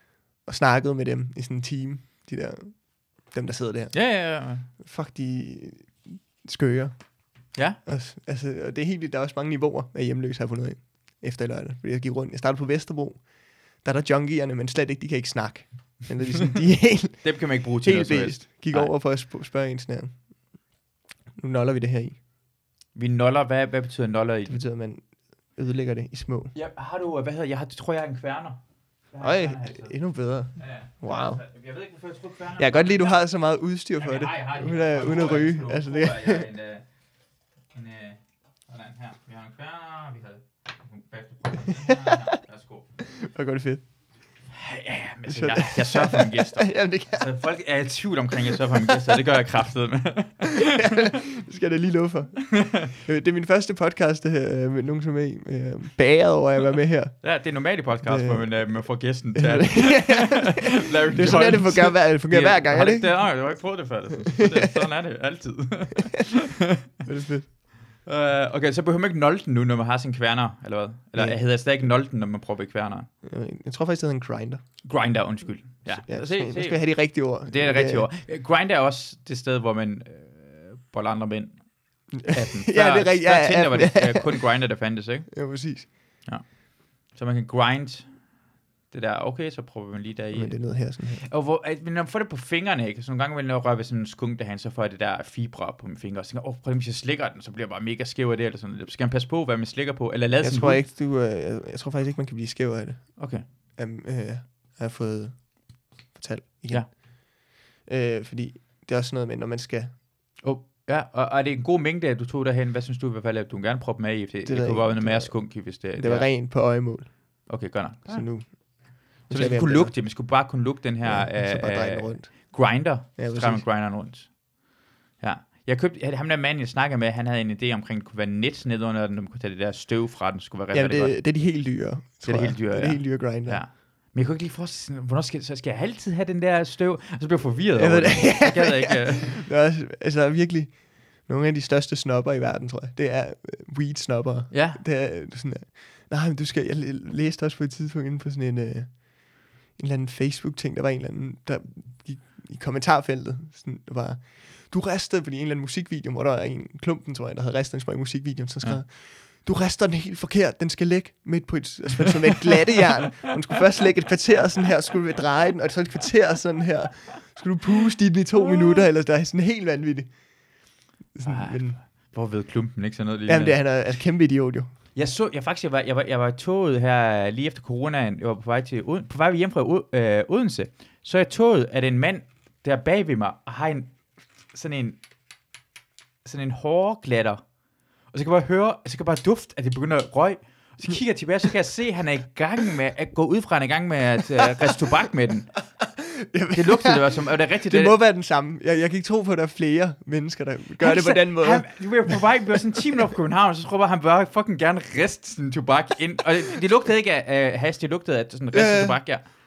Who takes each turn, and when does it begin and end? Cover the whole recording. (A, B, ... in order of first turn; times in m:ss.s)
0:00.4-0:20.7 A
0:03.9-0:04.7 B
0:17.2-0:18.9 B
0:21.4-0:22.2 A
0:22.9-0:24.6 B
0:24.5-0:26.5 A
0:26.5-0:28.6 B
0:29.1-0:30.0 B
0:29.2-0:31.4 A
0:30.6-0:33.2 B
0:32.6-0:36.4 A
0:34.0-0:36.8 B
0:37.7-0:42.9 B
0:43.2-0:43.8 A
0:44.5-0:51.1 B
0:45.3-0:47.3 A
0:50.8-0:57.3 A
0:52.6-0:52.9 B
0:57.2-1:06.4 B
0:58.0-1:03.6 A
1:07.0-1:07.5 A
1:08.0-1:13.1 B
1:11.1-1:11.4 A
1:13.2-1:14.6 A
1:14.8-1:25.5 B
1:15.9-1:18.1 A
1:22.2-1:24.4 A
1:25.3-1:25.9 A
1:26.2-1:28.2 B
1:28.9-1:40.8 B
1:30.3-1:31.2 A
1:40.4-1:50.0 A
1:43.2-1:43.4 B
1:50.4-1:56.4 B
1:54.4-2:00.4 A
1:57.5-2:04.4 B
2:01.0-2:03.7 A
2:05.2-2:11.2 B
2:10.7-2:13.6 A
2:12.2-2:19.4 B
2:17.8-2:51.8 A
2:24.5-2:24.8 B
2:51.2-2:53.6 B
2:53.3-2:54.7 A
2:54.9-3:04.0 B
3:04.5-3:05.0 B
3:06.2-3:07.4 B
3:08.1-3:15.5 B
3:16.1-3:22.2 A
3:16.5-3:18.0 B
3:20.8-3:29.2 B
3:28.5-3:29.0 A